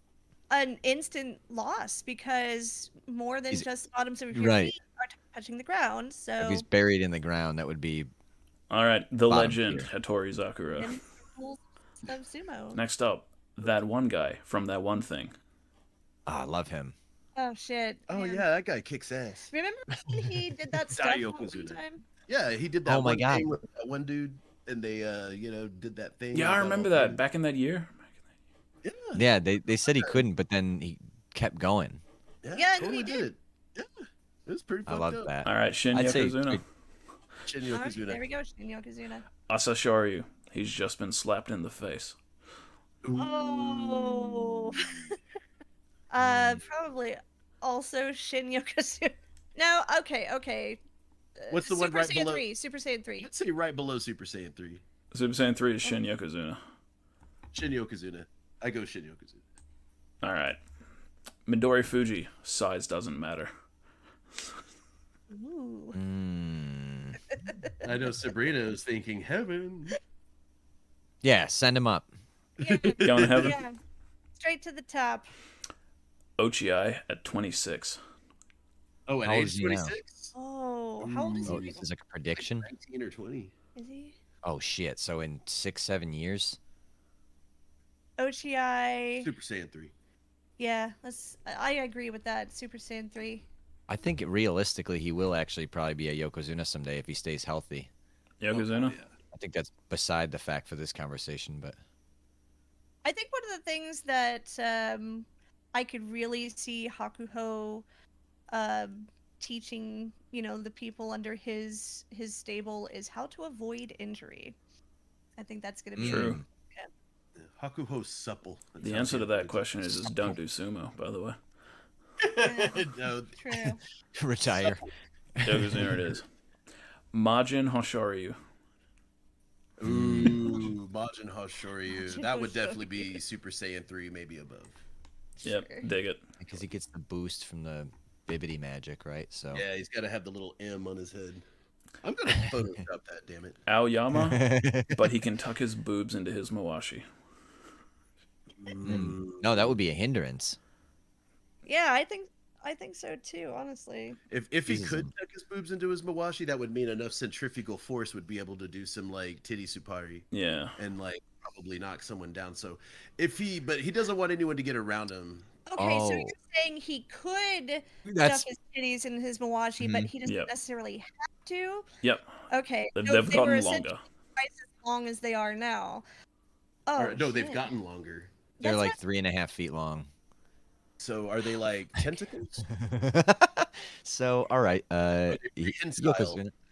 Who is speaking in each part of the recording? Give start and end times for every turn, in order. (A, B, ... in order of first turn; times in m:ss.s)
0:00.5-0:06.6 A
0:04.3-0:04.7 B
0:06.4-0:08.1 B
0:08.7-0:11.0 C
0:09.3-0:09.9 B
0:10.8-0:12.8 A
0:12.7-0:15.3 C
0:16.3-0:16.9 B
0:17.4-0:18.4 A
0:18.1-0:19.5 D
0:19.5-0:22.0 A
0:20.9-0:27.2 D
0:22.8-0:23.5 B
0:26.3-0:28.1 C
0:28.8-0:29.2 D
0:29.1-0:32.0 B
0:29.9-0:30.2 D
0:32.4-0:35.4 D
0:32.6-0:33.3 A
0:34.9-0:36.6 B
0:35.4-0:36.6 C
0:37.4-0:38.2 D
0:37.7-0:39.2 A
0:39.5-0:42.2 C
0:43.0-0:45.1 D
0:43.2-0:45.1 A
0:46.1-0:50.8 A
0:46.2-0:46.6 B
0:51.4-0:53.3 A
0:51.5-0:52.4 D
0:53.2-0:54.8 D
0:55.1-0:56.6 C
0:57.5-0:59.4 D
1:00.2-1:00.6 C
1:01.4-1:03.5 C
1:05.3-1:06.0 A
1:05.9-1:07.2 B
1:07.3-1:07.8 A
1:07.8-1:10.0 D
1:11.2-1:12.1 B
1:12.6-1:13.8 A
1:12.6-1:13.6 D
1:13.0-1:13.6 C
1:14.4-1:15.3 A
1:16.4-1:18.0 C
1:19.1-1:20.3 D
1:19.2-1:19.9 B
1:20.3-1:21.8 A
1:21.0-1:21.8 D
1:21.4-1:22.7 B
1:22.4-1:23.5 D
1:23.8-1:24.1 A
1:24.4-1:26.6 B
1:28.2-1:29.3 A
1:29.2-1:29.9 D
1:30.6-1:33.4 A
1:33.9-1:37.9 B
1:38.4-1:39.0 C
1:38.5-1:39.1 D
1:39.3-1:41.8 B
1:43.0-1:47.8 A
1:48.5-1:54.6 A
1:55.4-1:56.9 A
1:56.0-1:56.4 B
1:56.0-1:56.4 C
1:57.4-2:00.0 D
1:58.8-2:01.4 C
2:02.2-2:03.6 D
2:02.4-2:03.8 A
2:04.2-2:06.0 B
2:05.4-2:06.2 C
2:07.1-2:08.4 C
2:09.8-2:14.8 D
2:09.8-2:10.7 B
2:11.9-2:13.2 A
2:15.4-2:15.9 A
2:15.4-2:16.2 C
2:16.4-2:19.6 B
2:19.5-2:21.4 D
2:22.0-2:23.6 D
2:23.7-2:27.0 C
2:24.1-2:25.0 B
2:28.6-2:29.8 D
2:28.8-2:30.6 B
2:31.6-2:34.2 A
2:34.3-2:40.2 D
2:34.6-2:35.1 B
2:40.3-2:40.8 C
2:40.8-2:45.5 D
2:45.7-2:51.8 A
2:45.8-2:46.3 B
2:48.0-2:48.5 B
2:49.8-2:50.1 B
2:50.2-2:50.5 C
2:52.0-2:52.3 C
2:52.5-2:56.0 A
2:53.0-2:54.0 C
2:56.9-2:57.7 A
2:57.0-2:58.3 D
2:58.6-2:59.0 A
2:58.6-3:00.1 B
3:01.0-3:02.6 D
3:02.7-3:06.5 B
3:05.3-3:06.4 D